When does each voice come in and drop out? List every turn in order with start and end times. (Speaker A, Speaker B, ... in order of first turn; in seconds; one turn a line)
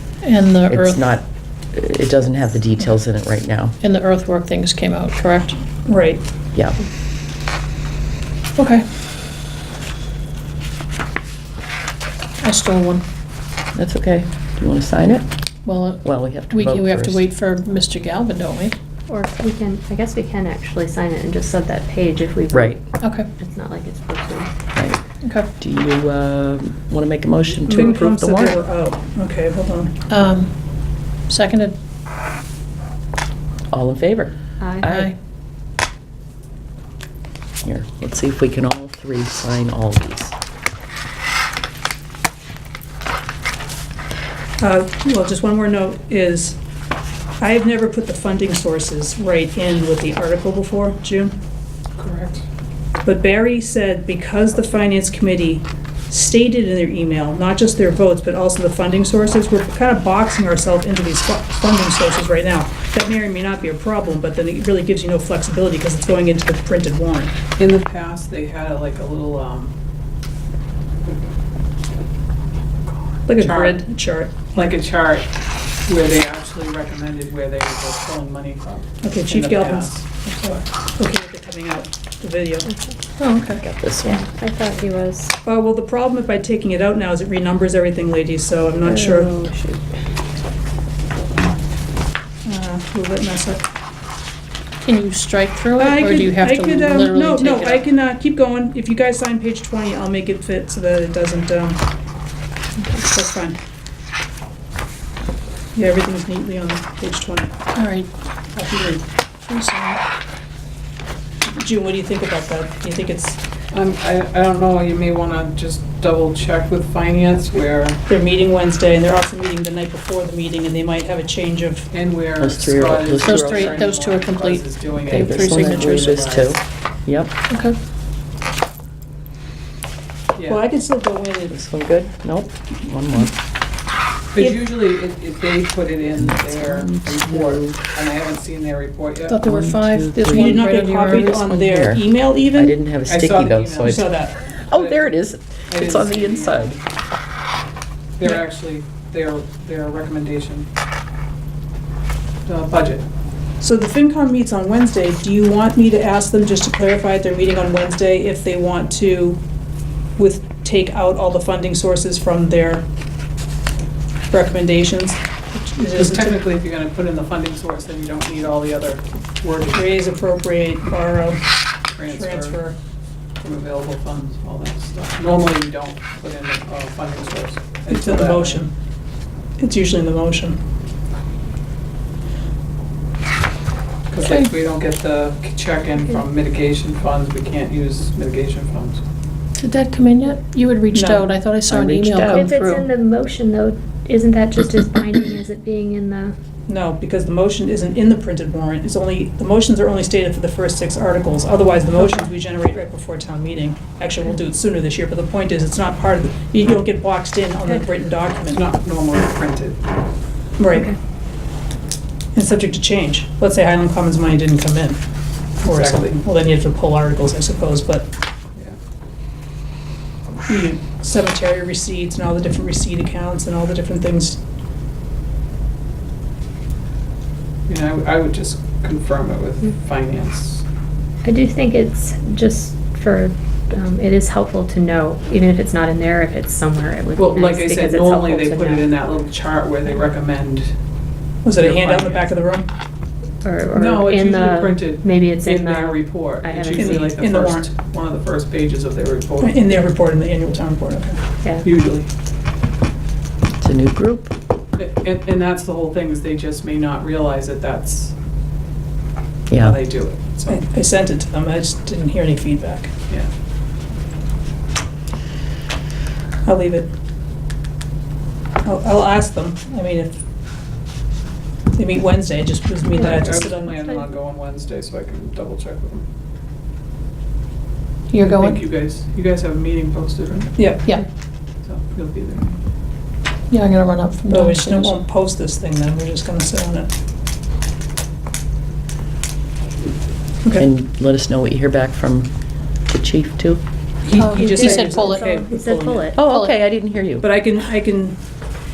Speaker A: 0.2-1.0
Speaker B: 0.7-3.8
Speaker A: 3.8-5.6
Speaker C: 5.8-6.2
Speaker B: 6.5-6.8
Speaker A: 8.6-8.8
Speaker A: 12.4-13.0
Speaker B: 13.7-15.2
Speaker A: 15.6-18.8
Speaker B: 16.0-17.2
Speaker D: 19.1-24.5
Speaker B: 22.5-22.8
Speaker A: 23.0-23.3
Speaker B: 24.7-28.6
Speaker A: 25.2-25.5
Speaker C: 27.7-29.9
Speaker A: 30.1-30.5
Speaker A: 31.3-31.8
Speaker B: 33.7-35.1
Speaker D: 34.6-34.9
Speaker B: 37.6-40.3
Speaker C: 44.6-46.6
Speaker C: 47.4-51.3
Speaker E: 52.0-52.4
Speaker C: 53.0-67.3
Speaker E: 67.6-69.7
Speaker E: 72.9-73.8
Speaker C: 73.2-74.3
Speaker E: 74.5-75.3
Speaker E: 75.8-80.6
Speaker C: 79.0-82.7
Speaker D: 82.7-82.9
Speaker A: 83.2-83.6
Speaker B: 83.5-84.2
Speaker D: 84.0-85.3
Speaker C: 85.4-89.3
Speaker D: 88.8-89.8
Speaker C: 92.4-93.7
Speaker A: 94.8-97.9
Speaker C: 95.8-101.8
Speaker C: 103.0-103.6
Speaker C: 105.7-107.5
Speaker A: 107.7-108.1
Speaker C: 108.5-109.0
Speaker A: 109.4-110.0
Speaker C: 111.5-113.4
Speaker E: 113.7-118.0
Speaker C: 118.1-121.9
Speaker E: 121.9-126.5
Speaker B: 122.4-123.9
Speaker A: 123.2-126.4
Speaker B: 125.1-127.3
Speaker A: 127.5-127.8
Speaker E: 130.3-130.6
Speaker C: 130.4-131.5
Speaker B: 131.5-133.4
Speaker E: 134.3-139.4
Speaker B: 136.2-137.8
Speaker A: 139.2-141.6
Speaker B: 139.4-146.8
Speaker C: 140.3-142.7
Speaker E: 143.1-145.1
Speaker C: 143.8-144.4
Speaker E: 145.7-146.8
Speaker E: 148.2-150.7
Speaker E: 152.4-153.1
Speaker C: 153.6-159.4
Speaker C: 160.2-162.8
Speaker C: 164.3-166.4
Speaker E: 165.9-170.0
Speaker C: 169.7-171.4
Speaker E: 171.9-172.6
Speaker C: 172.0-172.8
Speaker E: 173.4-178.7
Speaker C: 177.9-178.7
Speaker C: 179.6-180.6
Speaker E: 184.1-189.0
Speaker A: 184.2-184.5
Speaker A: 189.6-192.9
Speaker C: 190.9-191.3
Speaker B: 191.7-192.4
Speaker D: 192.3-196.3
Speaker C: 196.7-208.6
Speaker E: 208.5-209.8
Speaker C: 210.6-210.9
Speaker C: 212.3-215.0
Speaker C: 215.6-218.1
Speaker E: 215.6-216.1
Speaker C: 220.5-224.4
Speaker E: 227.7-230.6
Speaker D: 231.2-238.9
Speaker E: 237.2-240.7
Speaker C: 241.4-242.7
Speaker E: 241.6-242.3
Speaker D: 243.4-247.2
Speaker E: 243.7-249.8
Speaker C: 246.7-247.7
Speaker C: 249.4-251.2
Speaker E: 251.6-252.1
Speaker B: 253.6-254.3
Speaker E: 254.8-258.1
Speaker B: 259.5-259.8
Speaker E: 259.6-260.6
Speaker C: 260.5-262.9
Speaker C: 266.4-266.9
Speaker C: 268.6-270.2
Speaker C: 271.7-274.0
Speaker E: 272.9-276.1
Speaker A: 278.1-278.6
Speaker E: 278.2-280.7
Speaker C: 280.6-280.8
Speaker E: 281.6-282.5
Speaker A: 283.5-284.9
Speaker C: 284.3-286.9
Speaker B: 290.5-292.3
Speaker B: 292.9-293.6
Speaker C: 294.0-296.2
Speaker A: 294.1-295.4
Speaker D: 294.4-296.2
Speaker B: 296.1-297.3
Speaker A: 296.2-296.6
Speaker C: 297.2-298.2